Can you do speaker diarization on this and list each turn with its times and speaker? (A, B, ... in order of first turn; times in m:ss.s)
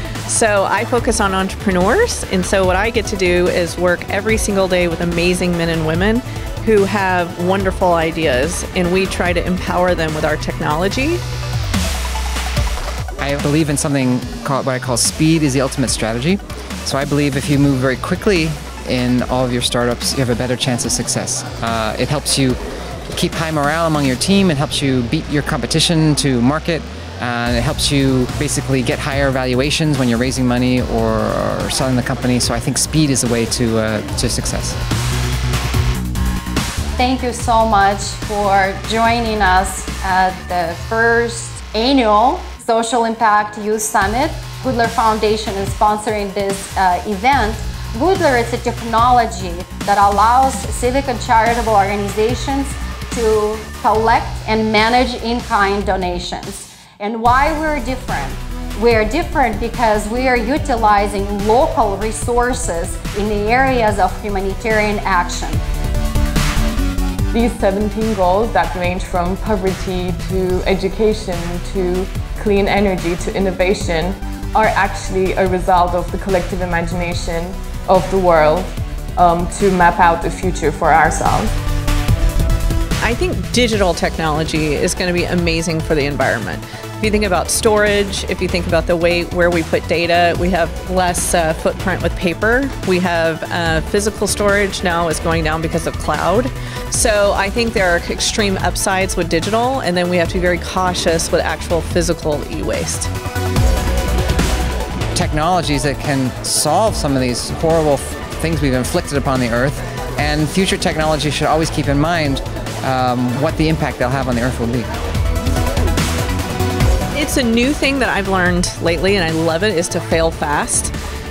0:00.3-0:11.2 A
0:13.2-0:22.6 B
0:23.1-0:34.8 B
0:37.0-1:05.6 C
1:07.3-1:21.5 D
1:23.0-1:43.1 A
1:45.2-1:54.9 B
1:57.1-2:00.9 A